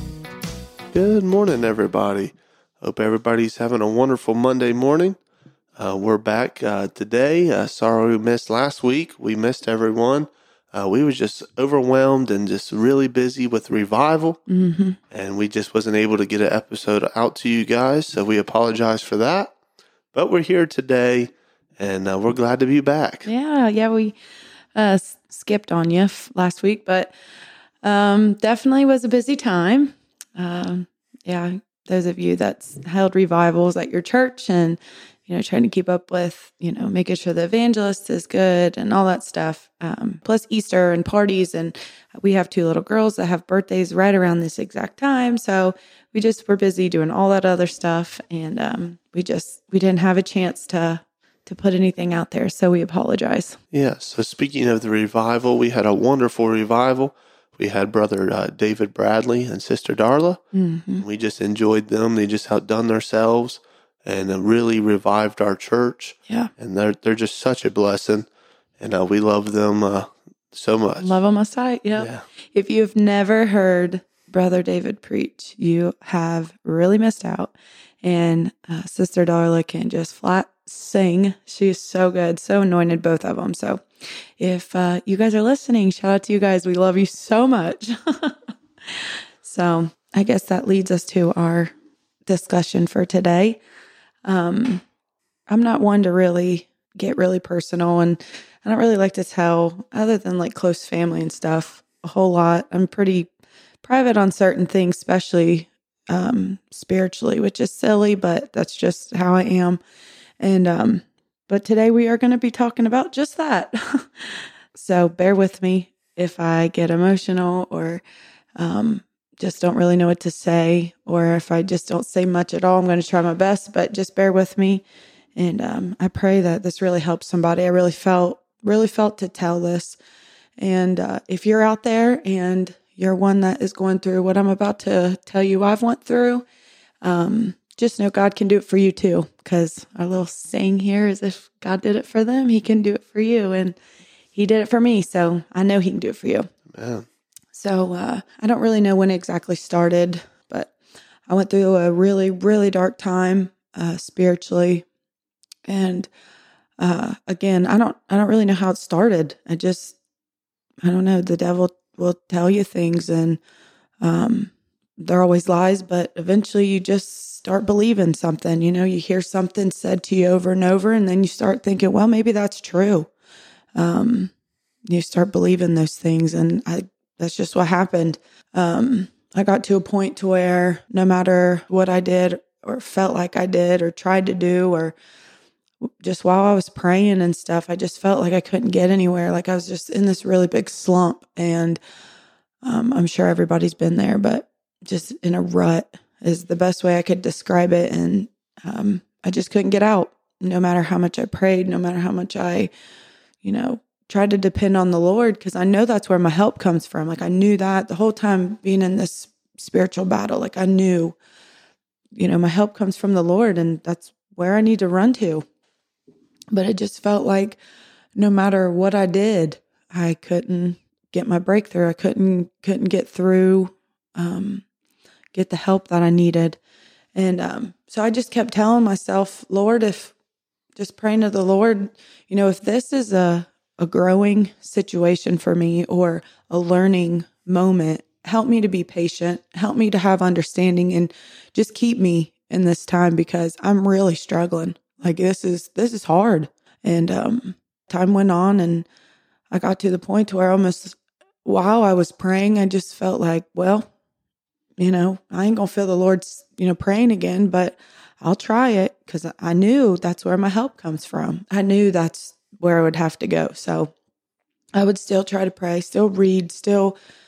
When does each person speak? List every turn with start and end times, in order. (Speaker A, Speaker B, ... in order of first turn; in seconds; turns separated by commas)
Speaker A: 0.9-5.2, Speaker A: 5.8-14.4, Speaker B: 14.5-15.0, Speaker A: 15.1-19.5, Speaker A: 20.1-23.3, Speaker B: 23.2-24.1, Speaker B: 24.7-27.1, Speaker B: 27.8-53.6, Speaker A: 53.7-60.4, Speaker B: 60.5-61.0, Speaker A: 61.0-68.3, Speaker A: 68.8-71.2, Speaker B: 71.0-83.8, Speaker A: 72.0-72.2, Speaker B: 84.4-88.3, Speaker B: 89.4-91.7, Speaker B: 92.3-93.6, Speaker B: 94.2-94.8, Speaker B: 95.5-103.3, Speaker B: 103.8-109.8, Speaker B: 110.4-118.0, Speaker B: 118.6-124.8, Speaker B: 125.3-130.0, Speaker B: 130.6-136.4, Speaker B: 137.0-143.8, Speaker B: 144.3-146.5, Speaker A: 146.7-147.1, Speaker B: 147.5-150.7, Speaker B: 151.3-154.8, Speaker B: 155.7-156.1, Speaker B: 156.8-159.9, Speaker B: 160.8-163.4, Speaker B: 164.0-173.1, Speaker B: 173.8-174.3, Speaker B: 174.9-184.9, Speaker B: 186.0-191.8, Speaker B: 192.6-202.7, Speaker B: 203.4-211.2, Speaker B: 212.1-215.4, Speaker B: 216.5-217.6, Speaker B: 218.2-224.6, Speaker B: 225.3-226.6, Speaker B: 227.2-230.1, Speaker B: 230.8-248.8, Speaker B: 249.5-253.9, Speaker B: 254.8-263.9, Speaker B: 264.7-266.9